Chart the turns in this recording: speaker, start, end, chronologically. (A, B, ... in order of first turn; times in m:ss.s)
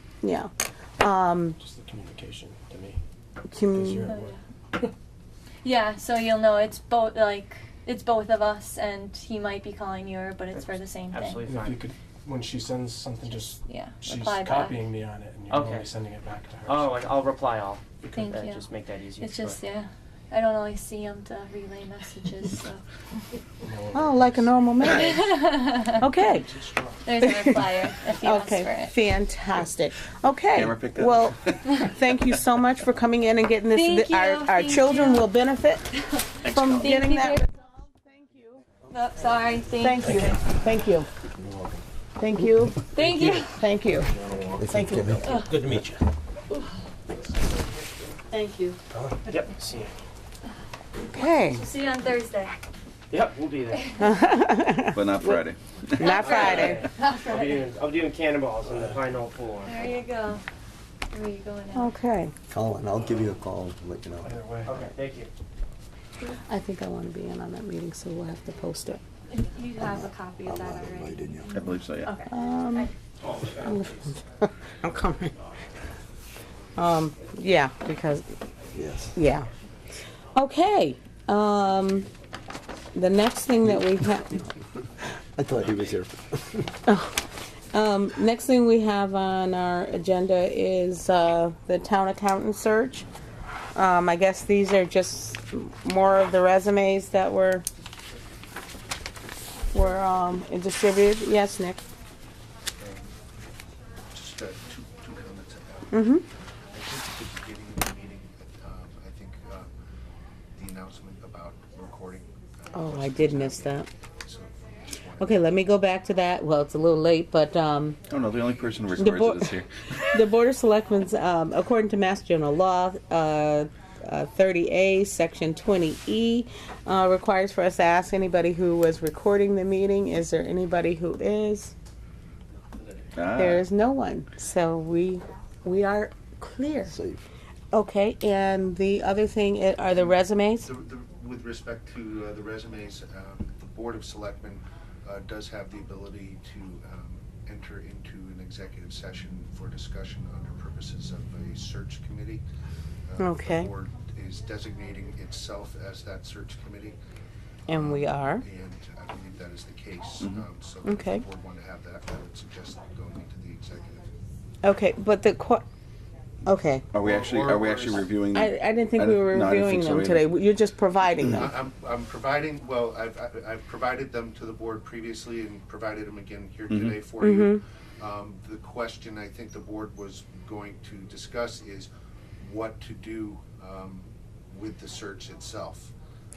0:00.2-0:01.6 A
0:01.6-0:03.0 B
0:03.5-0:04.1 A
0:03.7-0:04.9 B
0:04.1-0:04.4 C
0:05.6-0:11.4 C
0:10.5-0:11.9 D
0:11.5-0:17.1 B
0:13.6-0:14.8 C
0:15.5-0:15.9 D
0:16.6-0:19.6 D
0:18.0-0:18.3 B
0:18.1-0:18.7 C
0:19.2-0:22.8 C
0:23.6-0:24.8 B
0:23.9-0:26.5 A
0:24.9-0:26.0 C
0:26.2-0:27.2 B
0:27.0-0:29.0 C
0:27.2-0:27.6 A
0:28.2-0:35.9 A
0:30.5-0:31.9 E
0:33.7-0:35.3 C
0:35.9-0:37.4 C
0:36.4-0:37.0 E
0:36.5-0:38.6 A
0:38.9-0:40.5 C
0:39.8-0:41.1 A
0:41.4-0:41.8 F
0:42.2-0:42.8 A
0:42.9-0:43.6 C
0:43.0-0:43.3 F
0:43.4-0:45.4 A
0:44.1-0:45.9 F
0:45.5-0:46.0 D
0:48.3-0:48.8 A
0:49.3-0:50.0 D
0:51.1-0:51.6 A
0:51.5-0:52.6 C
0:53.1-0:53.9 D
0:53.7-0:54.1 C
0:54.0-0:55.4 A
0:54.9-0:56.1 E
0:56.0-0:56.8 A
0:56.0-0:57.7 C
0:56.0-0:59.9 D
0:58.6-0:59.0 B
0:59.7-1:00.4 C
1:01.1-1:01.9 C
1:01.7-1:02.3 A
1:02.5-1:04.4 F
1:04.2-1:05.0 B
1:04.7-1:05.3 D
1:06.5-1:09.0 A
1:09.3-1:12.9 C
1:09.8-1:11.6 F
1:11.5-1:12.1 E
1:12.3-1:12.9 A
1:13.6-1:15.3 A
1:16.8-1:18.2 A
1:18.7-1:19.2 F
1:19.2-1:19.5 A
1:20.4-1:22.1 A
1:22.9-1:24.5 A
1:25.4-1:26.7 F
1:26.9-1:33.1 A
1:33.8-1:37.7 A
1:39.7-1:41.8 A
1:42.8-1:43.1 G
1:44.1-1:46.0 G
1:45.9-1:46.2 A
1:46.7-1:49.7 G
1:50.6-1:55.4 G
1:52.7-1:53.9 A
1:55.2-1:58.0 A
1:58.1-1:59.9 E
1:59.0-2:11.7 A
2:13.1-2:13.6 E
2:13.4-2:16.9 A
2:16.9-2:17.2 F
2:17.7-2:20.7 A
2:20.0-2:32.4 G
2:33.1-2:37.0 G
2:33.2-2:33.7 A
2:37.7-2:38.4 A
2:37.7-2:44.1 G
2:40.8-2:41.2 A
2:44.6-2:45.6 A
2:46.5-2:46.9 A
2:46.9-2:50.2 E
2:47.0-2:48.1 G
2:48.3-2:51.5 A
2:51.3-3:05.9 G
2:56.7-2:57.0 E
2:57.2-2:57.6 A